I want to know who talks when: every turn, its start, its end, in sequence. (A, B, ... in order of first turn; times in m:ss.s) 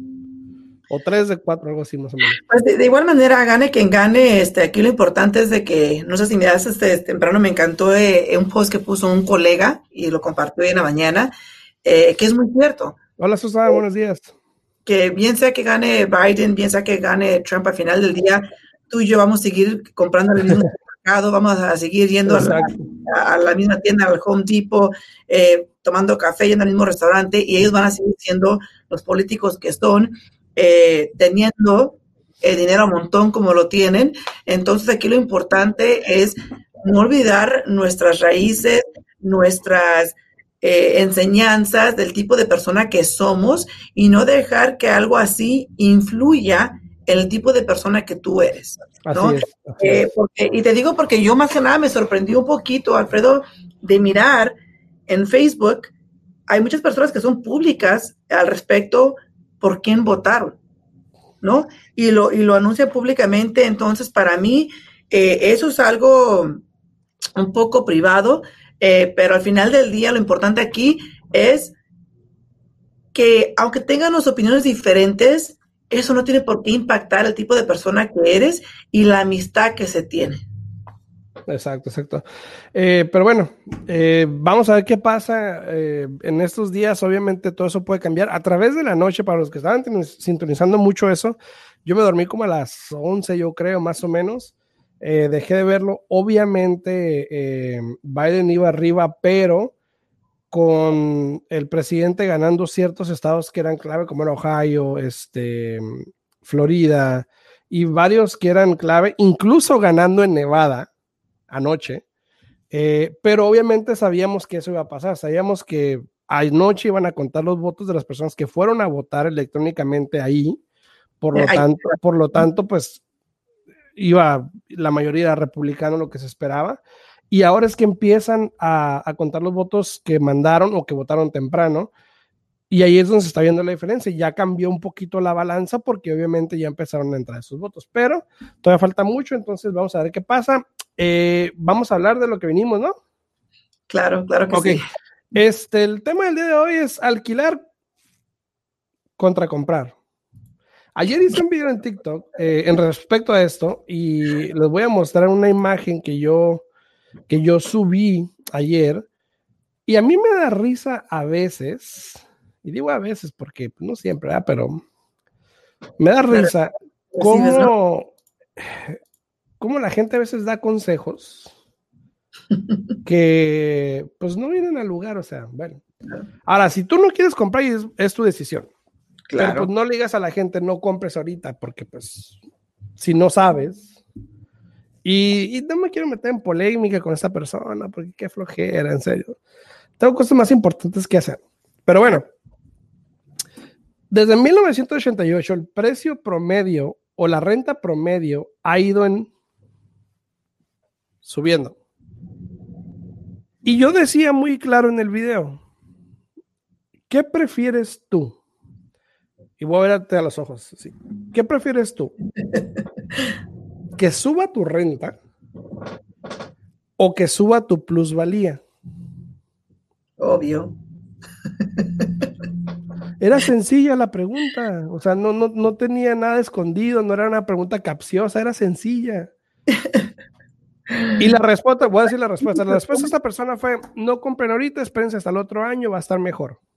0:00.9-0:02.4 A
0:02.4-0:11.3 B
0:11.8-0:13.0 B
0:13.2-0:14.3 A
0:14.8-0:54.6 B
0:22.2-0:22.7 A
0:49.0-0:50.0 A
0:55.1-0:55.9 B
0:56.5-1:00.6 B
1:01.4-1:06.6 B
1:07.4-1:11.7 B
1:13.1-1:20.4 B
1:21.5-1:39.7 A
1:40.5-1:50.9 A
1:51.5-1:52.0 A
1:52.7-2:00.6 A
2:01.2-2:03.0 A
2:01.3-2:02.0 B
2:04.0-2:11.9 A
2:12.7-2:22.9 A
2:23.9-2:24.8 B
2:24.5-2:24.8 A
2:25.3-2:27.6 A
2:29.2-2:29.9 A
2:30.9-2:36.6 A
2:37.3-2:39.0 A
2:39.9-2:44.8 A
2:46.0-2:49.0 A
2:47.1-2:47.7 B
2:49.6-2:51.5 A
2:53.0-2:55.8 A
2:56.4-2:58.7 A
2:59.3-2:59.7 B
2:59.4-3:02.4 A
3:03.0-3:03.9 A
3:05.0-3:09.3 A
3:10.0-3:12.2 A
3:14.1-3:19.3 A
3:21.2-3:21.7 A
3:23.6-3:25.6 A
3:27.1-3:28.4 A
3:29.6-3:32.1 A
3:34.0-3:35.2 A
3:37.0-3:38.6 A
3:40.2-3:40.7 B
3:42.0-3:42.2 B
3:43.2-3:49.3 A
3:51.2-3:56.6 A